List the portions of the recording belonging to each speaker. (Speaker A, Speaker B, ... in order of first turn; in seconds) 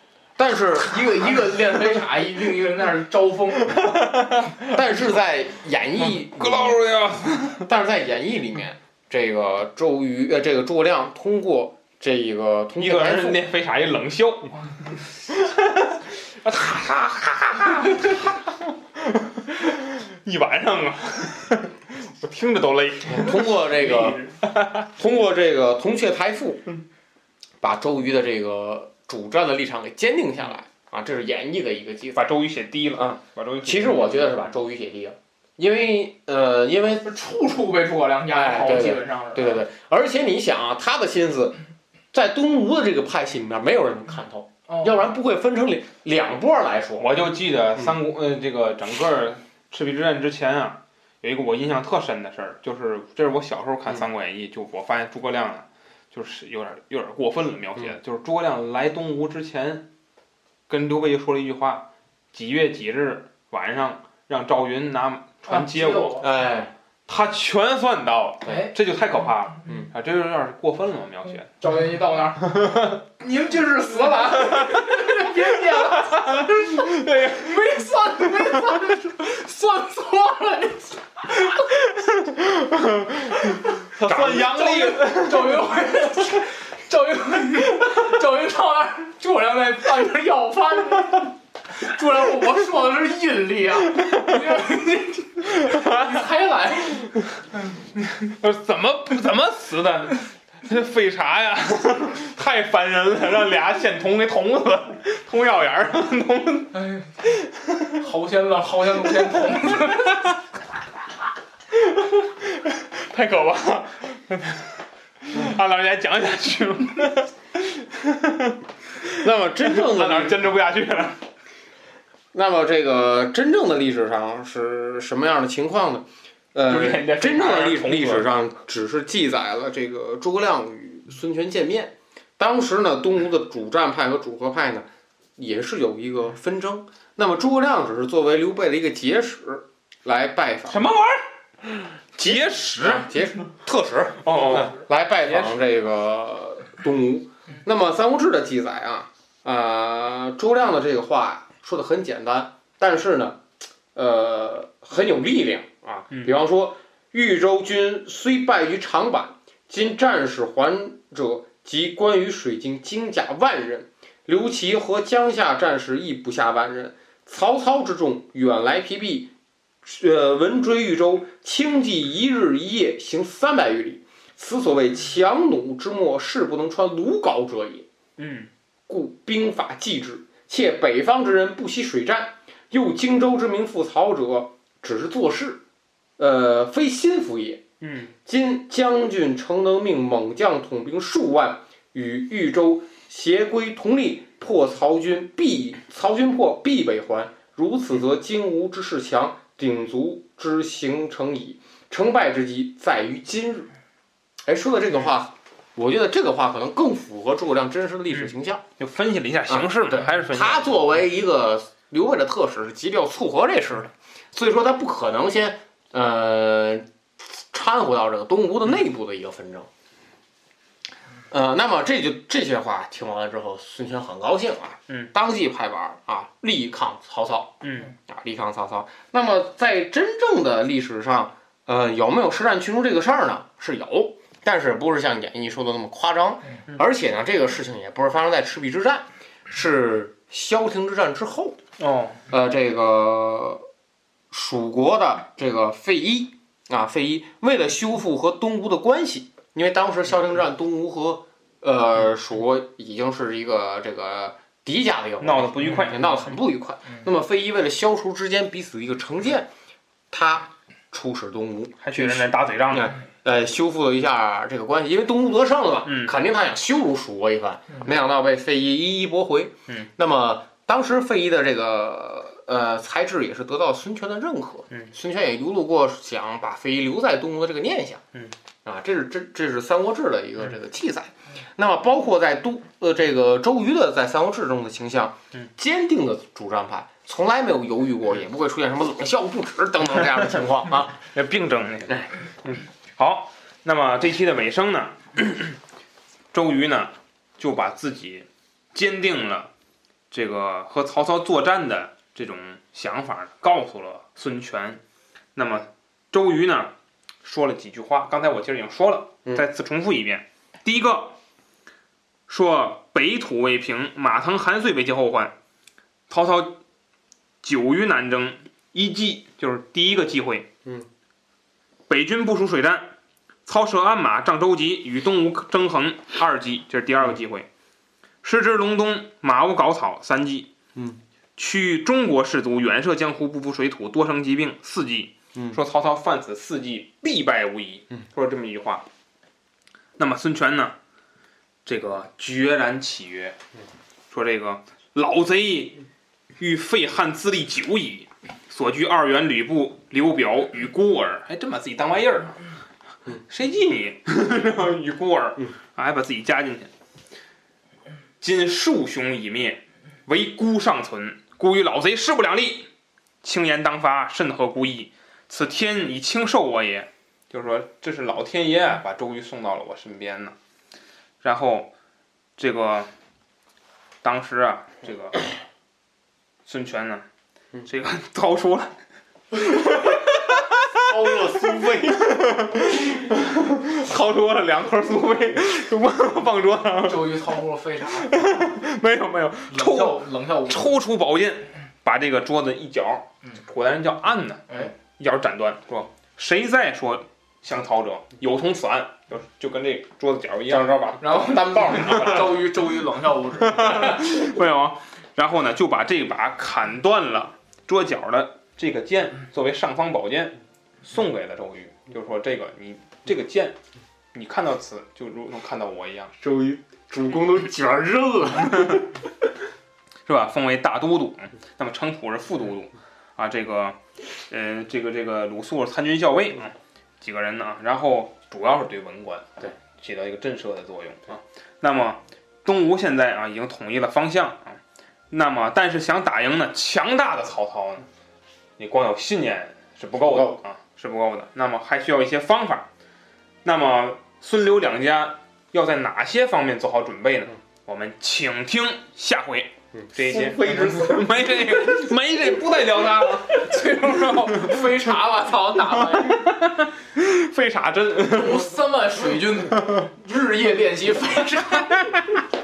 Speaker A: 0.3-1.2, 4.7-6.8, 7.7-13.4, 23.1-24.2, 24.9-26.6, 27.6-32.2, 33.0-37.0, 38.3-41.6, 42.1-47.1, 66.2-66.7, 84.0-84.6, 119.2-120.4, 122.3-134.8, 135.4-140.9, 142.2-153.4, 153.9-169.3, 169.8-177.9, 178.9-185.6, 186.2-187.6, 188.2-203.7, 204.4-208.6, 209.5-219.7, 221.3-241.6, 242.3-243.6, 244.3-259.5, 260.1-278.0, 278.6-291.0, 330.8-331.0, 380.7-382.0, 400.5-402.4, 416.2-418.9, 440.0-440.4, 449.8-451.1
Speaker B: 0.7-3.8, 37.0-39.6, 44.7-45.0, 65.5-66.3, 68.5-68.7, 71.6-81.6, 84.2-97.1, 106.7-107.1, 108.0-110.3, 386.8-388.2, 389.5-390.7, 401.0-404.1, 453.2-456.3, 458.1-461.8
Speaker C: 3.6-4.8, 6.0-7.7, 12.8-14.7, 15.3-24.9, 32.1-34.5, 47.0-59.9, 60.7-66.2, 67.1-71.5, 74.4-77.8, 82.2-85.7, 95.6-96.1, 97.9-106.7, 111.8-114.7, 115.2-121.2, 126.7-128.3, 140.7-143.1, 144.2-145.6, 178.2-178.5, 187.8-188.1, 208.1-210.8, 227.6-227.9, 241.8-242.2, 255.2-256.3, 261.8-263.0, 265.9-266.1, 290.9-295.6, 296.3-299.5, 300.1-304.8, 305.3-311.1, 312.3-315.3, 316.1-316.6, 317.4-320.5, 321.9-322.9, 323.4-327.5, 328.2-330.5, 331.4-338.9, 340.0-340.8, 341.6-343.4, 344.1-345.8, 346.4-352.4, 353.2-356.7, 358.2-362.7, 363.2-370.4, 371.2-371.7, 372.4-372.9, 374.0-375.2, 376.4-377.0, 377.6-378.7, 379.3-387.2, 387.9-400.9, 401.9-402.3, 403.5-413.6, 414.1-416.1, 420.1-423.8, 424.3-434.6, 435.1-437.9, 438.6-442.7, 443.4-453.6, 454.3-454.7, 455.7-458.5